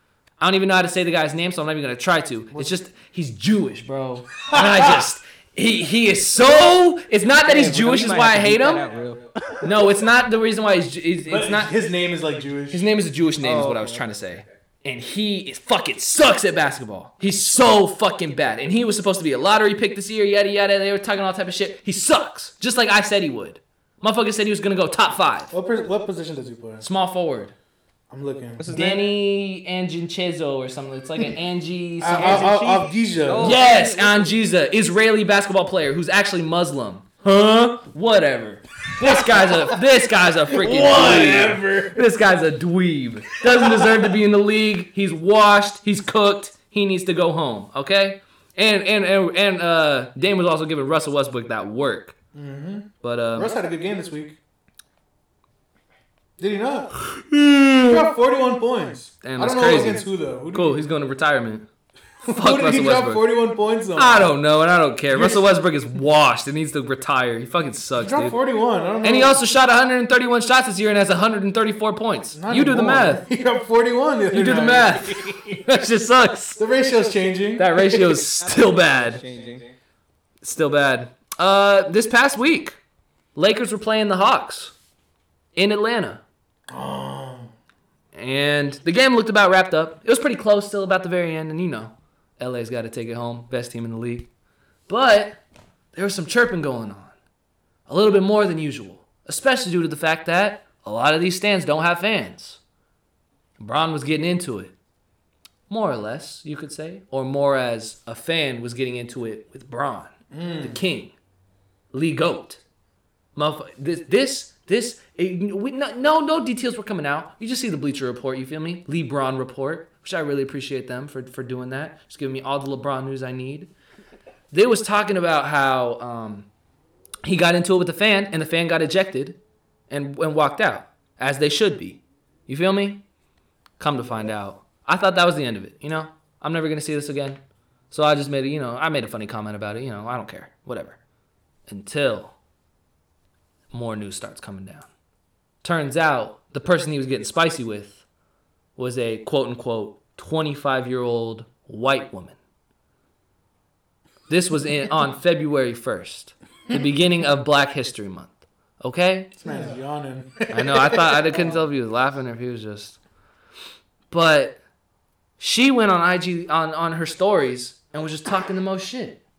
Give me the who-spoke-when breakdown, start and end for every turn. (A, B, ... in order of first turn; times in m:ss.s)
0:00.4-0:08.8 A
0:04.5-0:05.1 B
0:07.4-0:09.6 C
0:09.6-0:11.8 A
0:11.3-0:12.9 B
0:12.7-0:25.5 A
0:13.4-0:14.1 C
0:25.5-0:26.9 B
0:26.8-0:27.5 A
0:28.1-0:28.7 B
0:28.6-0:29.1 C
0:28.7-0:32.8 A
0:32.0-0:33.6 B
0:32.2-0:32.6 C
0:33.2-0:34.4 C
0:33.4-0:52.2 A
0:39.0-0:39.8 B
0:40.5-0:42.1 B
0:43.4-0:44.1 B
0:52.3-0:54.4 B
0:53.0-0:53.6 A
0:56.4-0:56.9 B
0:57.0-0:58.1 A
0:57.8-1:00.8 B
0:59.2-1:01.7 A
1:02.2-1:03.3 A
1:02.2-1:04.4 B
1:04.0-1:08.4 A
1:05.1-1:05.6 B
1:08.0-1:09.4 B
1:09.0-1:13.2 A
1:12.3-1:15.6 B
1:14.3-1:16.6 A
1:16.6-1:18.3 B
1:17.6-1:19.2 A
1:18.4-1:19.7 C
1:20.4-1:22.8 A
1:23.4-1:24.7 A
1:25.6-1:26.2 A
1:26.7-1:27.5 B
1:28.1-1:34.3 A
1:34.9-1:35.4 A
1:35.9-1:37.1 A
1:37.9-1:42.6 A
1:43.6-1:44.7 A
1:45.7-1:51.1 A
1:50.3-1:50.8 B
1:51.9-1:52.6 A
1:53.4-2:03.7 A
2:04.5-2:06.5 A
2:07.2-2:09.4 A
2:09.9-2:13.0 A
2:13.8-2:17.4 A
2:17.9-2:21.0 A
2:21.7-2:22.4 A
2:23.7-2:24.9 A
2:25.6-2:28.0 A
2:28.8-2:32.4 A
2:34.3-2:39.4 A
2:39.4-2:41.6 B
2:40.5-2:43.0 A
2:44.1-2:44.6 A
2:45.4-2:49.2 A